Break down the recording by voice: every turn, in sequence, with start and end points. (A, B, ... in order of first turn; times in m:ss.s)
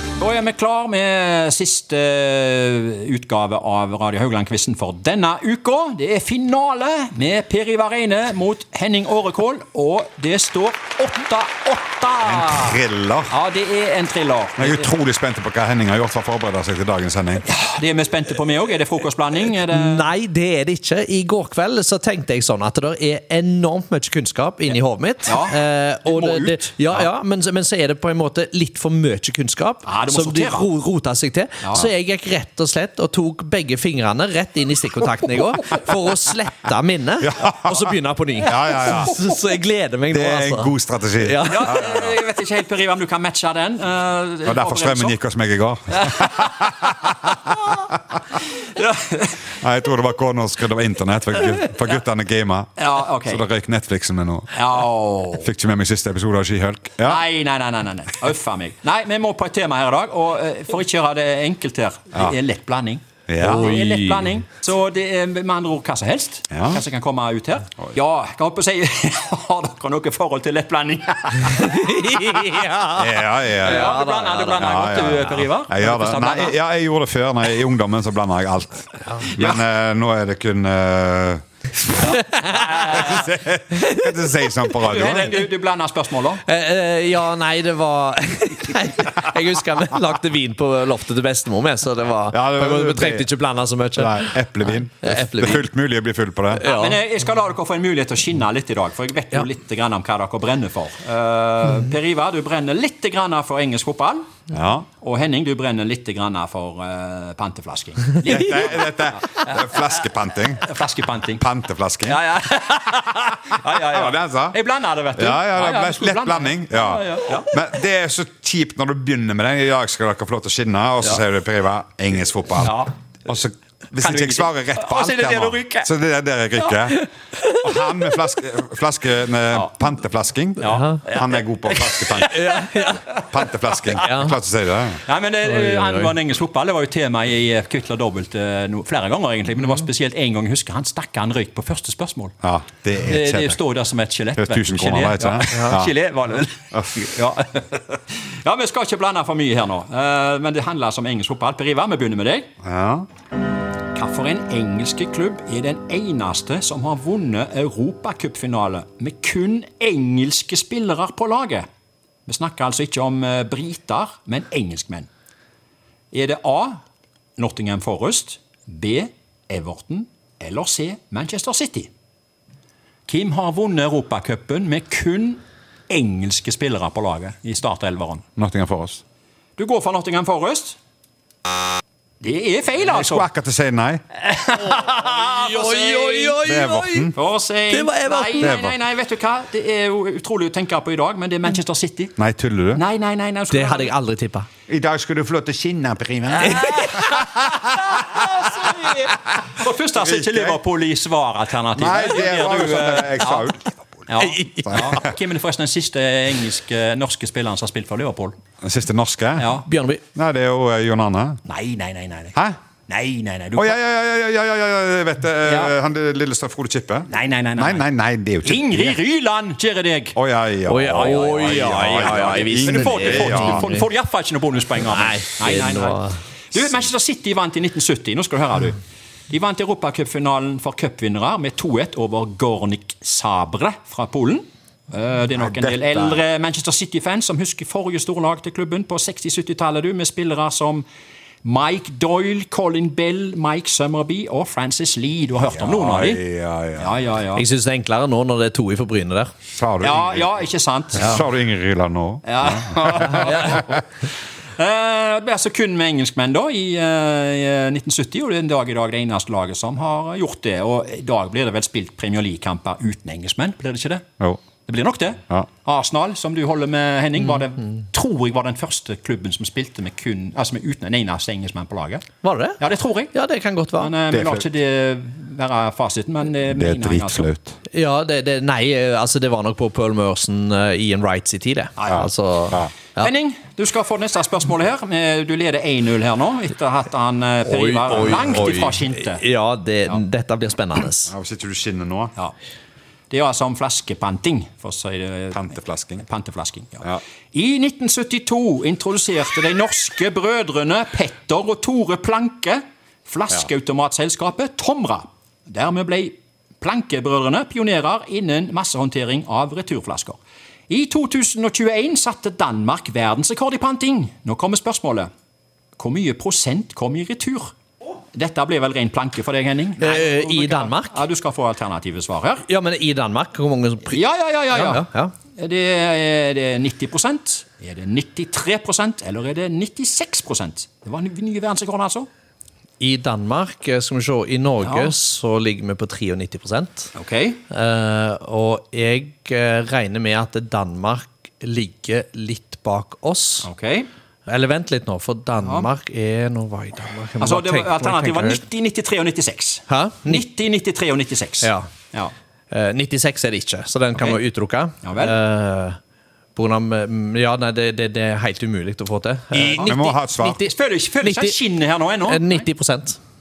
0:00.2-0:14.9 A
0:12.2-0:13.3 B
0:14.6-0:17.4 B
0:17.5-0:20.0 A
0:19.7-0:41.8 C
0:24.6-0:27.0 A
0:29.8-0:30.7 A
0:31.6-0:31.9 A
0:37.2-0:39.2 B
0:40.1-0:42.1 B
0:41.4-0:45.2 A
0:44.4-0:47.3 B
0:45.9-0:46.9 A
0:47.5-0:47.9 A
0:48.7-0:49.4 A
0:49.6-0:54.6 B
0:52.8-0:53.4 A
0:54.5-0:55.5 A
0:55.3-0:57.2 B
0:57.0-1:11.9 A
1:03.3-1:03.8 B
1:03.4-1:04.2 C
1:06.5-1:06.8 B
1:11.5-1:15.4 C
1:12.9-1:14.0 B
1:13.6-1:16.6 A
1:14.6-1:25.4 B
1:19.3-1:19.6 A
1:22.0-1:24.1 C
1:22.0-1:23.1 A
1:24.8-1:26.4 A
1:26.4-1:35.6 C
1:32.3-1:33.3 B
1:34.0-1:36.6 B
1:36.5-1:37.0 C
1:36.6-1:44.3 A
1:44.5-1:44.9 B
1:45.0-1:50.0 A
1:48.2-1:50.8 B
1:50.6-1:51.4 A
1:51.3-1:52.2 B
1:52.1-1:57.5 A
1:53.8-1:54.6 B
1:55.1-2:12.6 B
2:02.6-2:02.9 A
2:04.0-2:05.9 A
2:06.6-2:07.0 A
2:10.6-2:13.8 A
2:10.7-2:11.0 C
2:12.3-2:12.9 C
2:13.2-2:15.0 B
2:14.0-2:14.4 C
2:15.0-2:22.3 A
2:15.4-2:16.1 C
2:22.4-2:23.6 B
2:23.0-2:32.5 A
2:24.4-2:25.9 B
2:32.6-2:33.0 B
2:33.9-2:41.6 A
2:42.3-2:45.1 A
2:46.1-2:46.8 A
2:47.4-2:51.9 A
2:53.1-2:58.2 A
2:58.4-2:59.0 B
2:59.6-3:00.8 A
3:02.2-3:03.3 A
3:02.8-3:04.0 B
3:04.2-3:06.4 A
3:04.6-3:07.1 C
3:06.4-3:07.1 B
3:07.1-3:12.2 A
3:07.7-3:08.6 C
3:08.4-3:08.8 B
3:12.2-3:12.8 B
3:12.7-3:13.9 A
3:13.5-3:14.5 C
3:14.7-3:17.6 B
3:16.4-3:17.2 A
3:16.4-3:17.4 C
3:17.9-3:23.6 A
3:18.2-3:19.0 B
3:20.0-3:20.6 B
3:21.7-3:24.1 B
3:24.1-3:28.3 A
3:24.2-3:25.0 C
3:24.6-3:25.1 B
3:28.6-3:29.5 B
3:29.4-3:29.7 A
3:29.6-3:30.0 C
3:30.1-3:31.4 B
3:31.4-3:32.4 A
3:32.9-3:33.8 A
3:33.5-3:39.0 B
3:35.4-3:35.7 A
3:37.1-3:37.8 A
3:38.4-3:40.2 A
3:40.2-3:43.7 B
3:40.7-3:43.9 C
3:40.9-3:48.8 A
3:44.8-3:46.2 C
3:49.3-4:00.8 A
3:55.4-3:56.2 B
4:01.4-4:06.2 A
4:05.4-4:07.0 B
4:06.8-4:07.4 A
4:07.3-4:09.3 C
4:09.5-4:10.4 B
4:09.8-4:11.2 A
4:10.9-4:13.6 B
4:12.2-4:13.8 A
4:14.6-4:24.0 A
4:24.6-4:32.0 A
4:32.2-4:32.6 C
4:32.6-4:33.1 A
4:33.1-4:33.9 C
4:33.8-4:37.3 A
4:34.1-4:34.4 B
4:36.5-4:37.6 B
4:37.7-4:43.1 C
4:41.8-4:42.1 A
4:41.9-4:42.7 B
4:43.0-4:49.2 A
4:47.4-4:51.1 C
4:51.1-4:52.1 B
4:53.1-5:15.1 A
4:55.3-4:56.0 B
5:15.8-5:17.5 A
5:18.1-5:22.4 A
5:19.8-5:21.0 C
5:22.5-5:25.1 C
5:23.9-5:32.1 A
5:32.8-5:36.9 C
5:34.6-5:34.9 A
5:36.9-5:37.4 A
5:37.5-5:43.5 C
5:43.4-5:43.9 A
5:44.3-5:48.4 C
5:45.4-5:45.7 A
5:47.2-5:52.1 A
5:49.7-5:50.2 C
5:51.4-5:51.7 C
5:52.5-5:55.8 C
5:53.9-5:54.2 A
5:54.8-5:55.2 A
5:56.3-6:01.4 C
5:59.3-5:59.8 A
5:59.5-6:00.4 B
6:00.4-6:02.4 A
6:02.0-6:03.0 C